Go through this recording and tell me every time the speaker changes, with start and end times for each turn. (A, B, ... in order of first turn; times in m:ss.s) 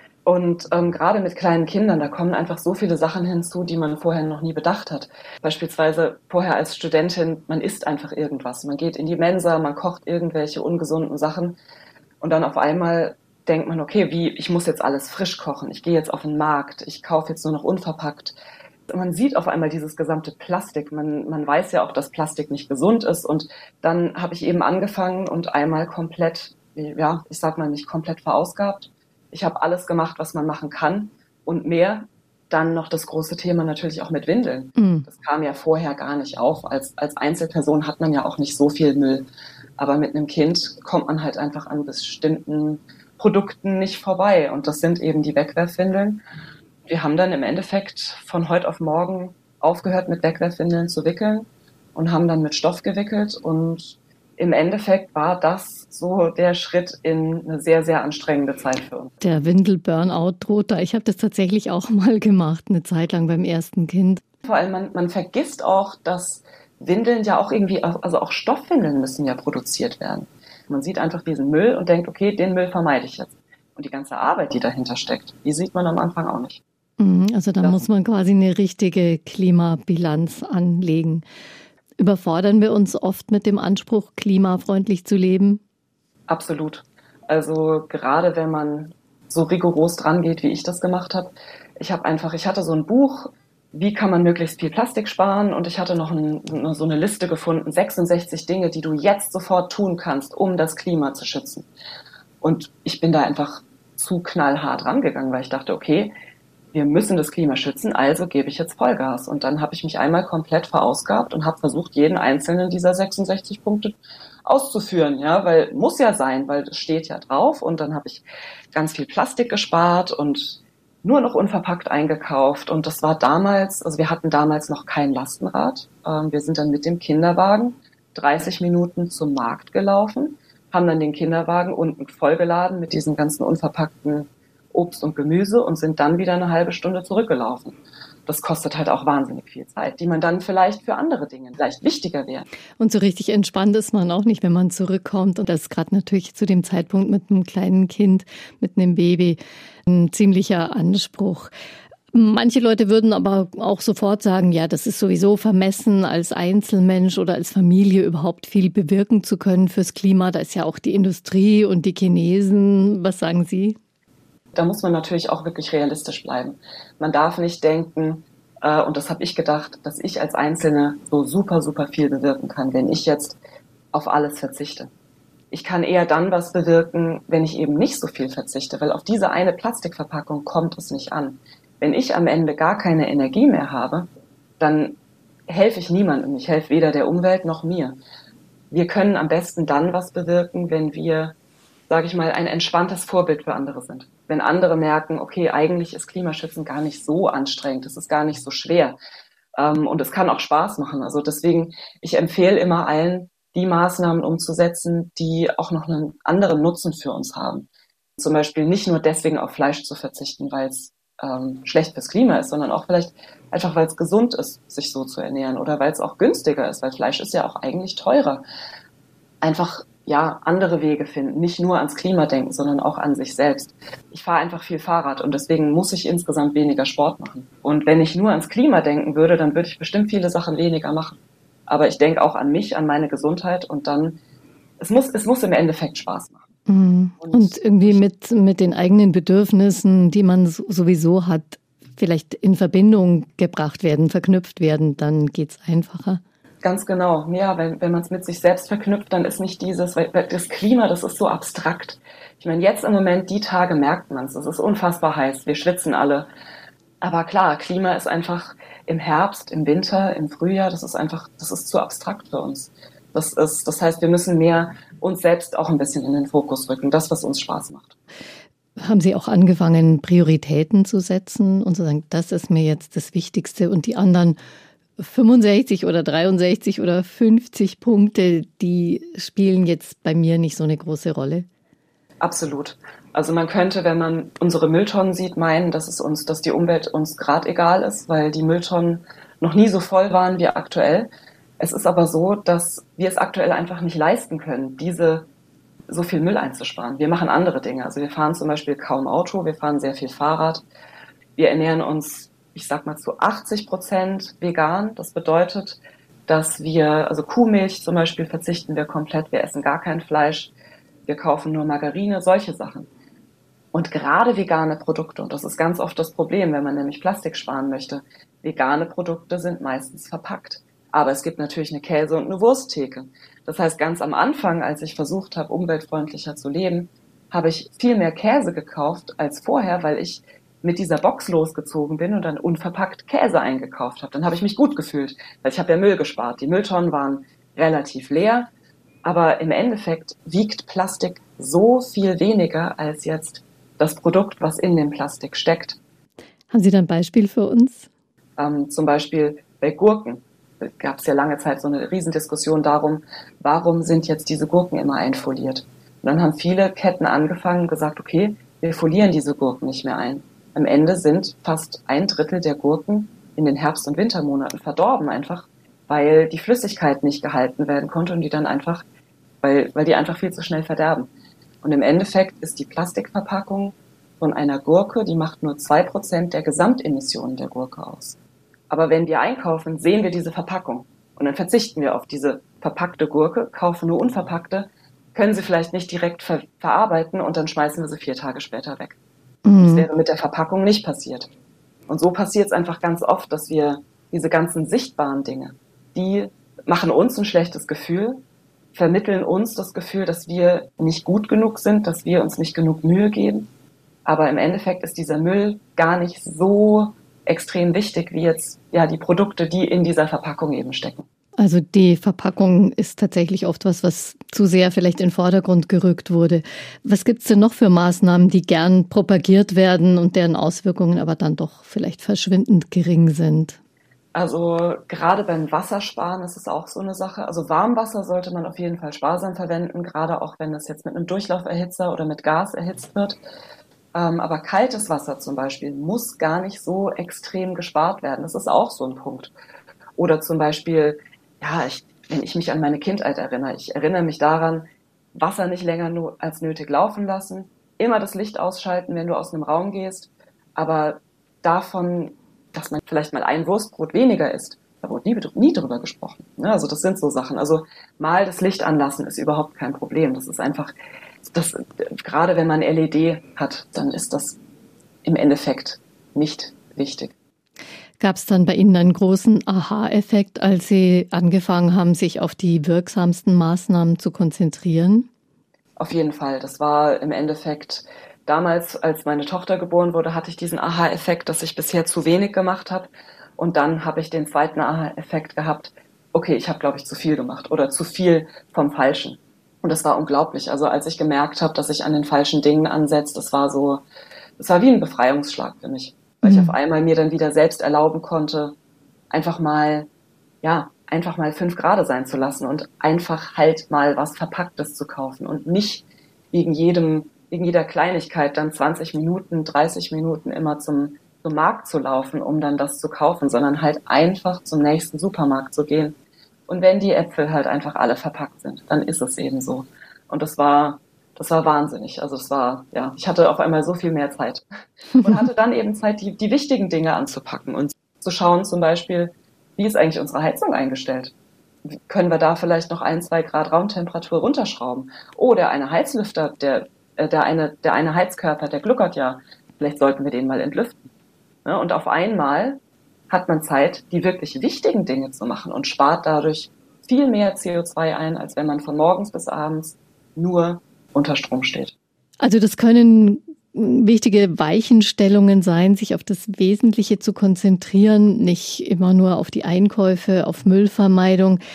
0:00.2-0:11.6 A
0:12.2-0:18.4 A
0:18.9-0:46.2 A
0:34.8-0:35.1 B
0:46.9-0:59.2 A
0:59.2-1:04.2 B
1:04.4-1:16.6 A
1:17.0-1:21.2 B
1:22.0-1:25.6 B
1:26.3-1:41.7 A
1:42.4-1:46.1 A
1:46.7-2:17.8 A
2:18.3-2:22.5 A
2:22.8-2:31.5 B
2:32.1-2:43.8 B
2:44.5-2:53.4 A
2:53.9-2:54.9 A
2:55.5-3:04.1 A
3:04.6-3:05.0 A
3:05.5-3:08.0 A
3:08.7-3:11.4 A
3:11.9-3:19.0 A
3:19.6-3:38.4 A
3:39.4-3:54.2 A
3:54.8-3:56.5 A
3:56.7-4:06.2 B
3:57.2-3:58.0 A
4:06.6-4:16.3 A
4:17.0-4:28.0 A
4:28.8-4:34.4 B
4:35.0-4:41.5 B
4:42.2-4:55.3 A
4:55.9-5:00.7 A
5:01.4-5:10.5 A
5:11.1-5:12.9 A
5:13.7-5:38.5 A
5:39.0-5:45.8 A
5:46.5-5:47.9 B
5:48.4-6:08.8 A
6:09.4-6:11.1 A
6:11.6-6:18.2 A
6:18.7-6:29.0 A
6:29.4-6:29.9 B
6:29.6-6:31.3 A
6:31.9-6:38.2 A
6:38.7-6:43.5 A
6:44.1-6:51.1 A
6:51.4-7:03.6 B
7:04.1-7:13.2 A
7:13.9-7:19.3 A
7:20.0-7:44.4 A
7:45.0-7:47.1 A
7:48.0-7:55.1 B
7:55.8-8:13.8 A
8:14.4-8:18.6 A
8:16.2-8:16.6 B
8:19.1-8:19.9 A
8:20.4-8:36.0 A
8:36.5-8:44.4 A
8:45.0-8:51.1 A
8:51.7-9:00.8 A
9:01.4-9:11.7 A
9:12.2-9:21.4 B